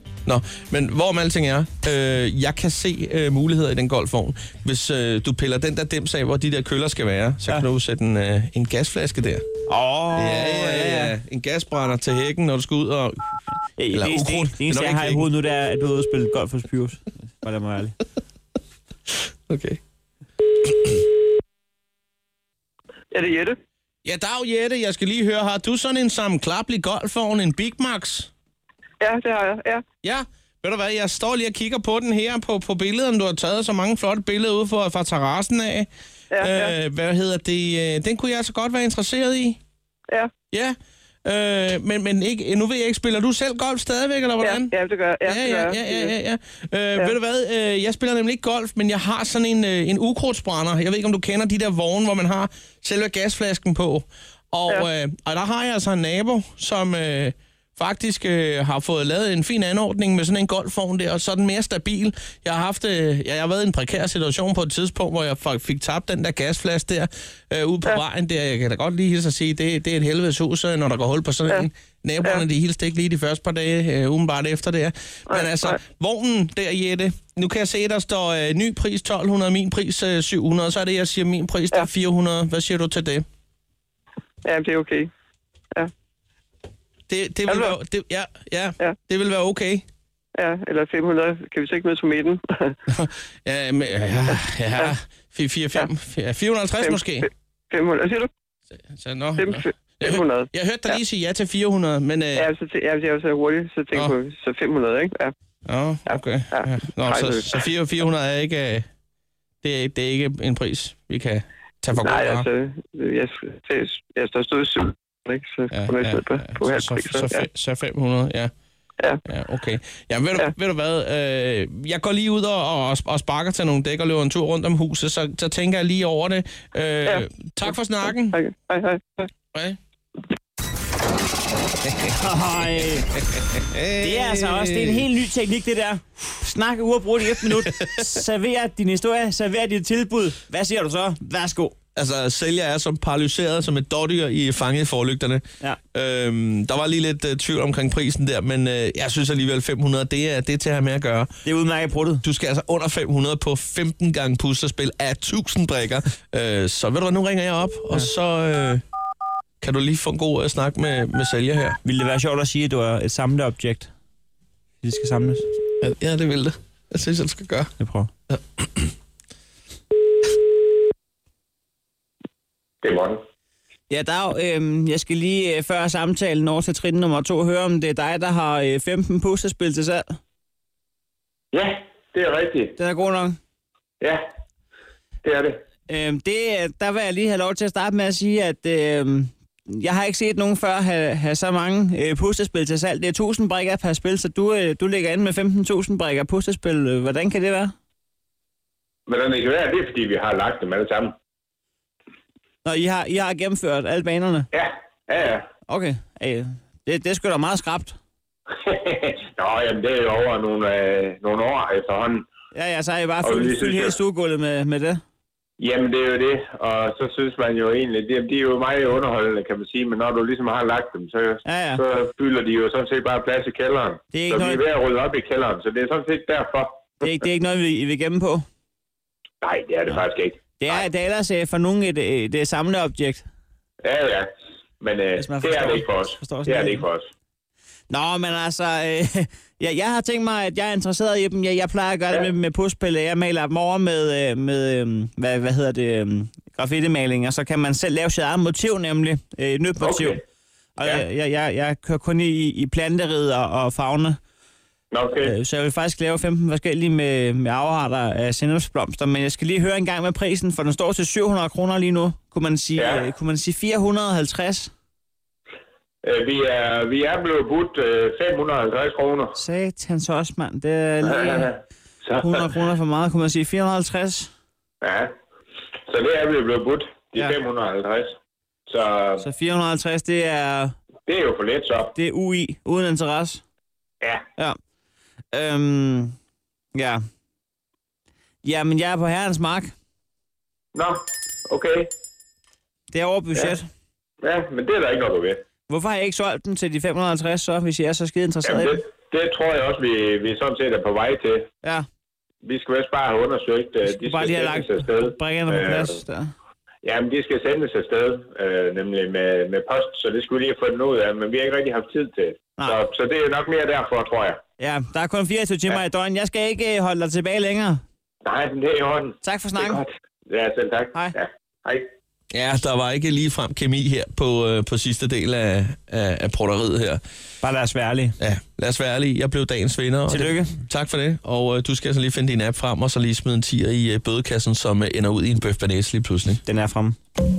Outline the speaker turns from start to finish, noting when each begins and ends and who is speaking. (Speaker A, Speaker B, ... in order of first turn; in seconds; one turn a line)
Speaker A: 0.2-9.4
Speaker B: 9.7-11.1
Speaker A: 10.1-13.2
Speaker B: 13.8-18.0
Speaker A: 13.9-15.3
Speaker A: 19.5-19.8
Speaker C: 23.1-23.6
Speaker A: 24.0-28.3
Speaker C: 29.0-29.8
Speaker A: 30.0-35.9
Speaker C: 36.3-36.7
Speaker A: 36.4-39.6
Speaker A: 40.5-83.2
Speaker C: 44.4-46.1
Speaker C: 75.3-75.8
Speaker C: 84.4-85.1
Speaker A: 87.1-89.8
Speaker C: 87.5-87.7
Speaker C: 90.3-92.8
Speaker A: 92.9-97.3
Speaker C: 96.8-98.3
Speaker A: 98.9-102.5
Speaker C: 99.4-100.5
Speaker C: 102.4-105.3
Speaker A: 105.7-108.9
Speaker C: 106.1-107.6
Speaker A: 109.6-112.5
Speaker C: 112.0-117.5
Speaker A: 115.7-118.5
Speaker A: 119.2-128.4
Speaker C: 127.0-127.7
Speaker C: 128.3-129.3
Speaker A: 129.5-129.8
Speaker A: 131.8-132.1
Speaker B: 132.1-133.1
Speaker A: 133.3-135.0
Speaker B: 134.0-141.8
Speaker A: 141.9-151.3
Speaker B: 151.4-152.2
Speaker A: 152.2-158.8
Speaker A: 159.6-161.8
Speaker B: 161.8-163.9
Speaker B: 164.8-165.4
Speaker A: 165.8-167.7
Speaker B: 167.8-168.1
Speaker A: 168.3-168.8
Speaker D: 172.8-173.2
Speaker B: 173.9-180.2
Speaker D: 181.5-182.7
Speaker B: 182.8-183.4
Speaker D: 185.2-185.6
Speaker B: 185.9-197.7
Speaker D: 199.1-201.1
Speaker B: 202.6-204.5
Speaker D: 204.5-205.4
Speaker B: 205.7-208.0
Speaker D: 208.6-212.2
Speaker B: 212.5-215.0
Speaker D: 213.2-214.0
Speaker D: 215.6-226.9
Speaker B: 221.4-221.8
Speaker B: 224.1-224.6
Speaker B: 227.0-228.4
Speaker D: 229.4-230.8
Speaker B: 230.6-233.2
Speaker D: 233.8-234.3
Speaker D: 234.8-237.1
Speaker B: 235.2-236.8
Speaker B: 237.9-250.2
Speaker D: 249.8-250.2
Speaker B: 250.8-254.2
Speaker D: 254.9-255.3
Speaker B: 255.2-264.7
Speaker D: 262.8-263.0
Speaker D: 266.0-269.4
Speaker B: 269.3-271.5
Speaker D: 271.2-271.5
Speaker B: 272.2-274.3
Speaker D: 274.8-275.1
Speaker D: 275.9-278.1
Speaker D: 278.7-279.2
Speaker B: 279.2-280.8
Speaker D: 281.1-281.9
Speaker B: 281.9-283.4
Speaker B: 285.3-286.1
Speaker B: 286.7-287.0
Speaker B: 288.4-289.7
Speaker D: 290.8-291.9
Speaker B: 292.9-293.7
Speaker D: 294.2-295.4
Speaker B: 295.7-298.8
Speaker D: 298.4-301.5
Speaker D: 302.4-306.0
Speaker B: 303.9-306.3
Speaker D: 306.8-314.4
Speaker B: 314.6-317.8
Speaker D: 318.2-321.9
Speaker B: 319.2-319.8
Speaker A: 322.3-327.0
Speaker B: 327.4-328.1
Speaker A: 328.2-336.4
Speaker B: 330.1-330.6
Speaker B: 336.4-336.9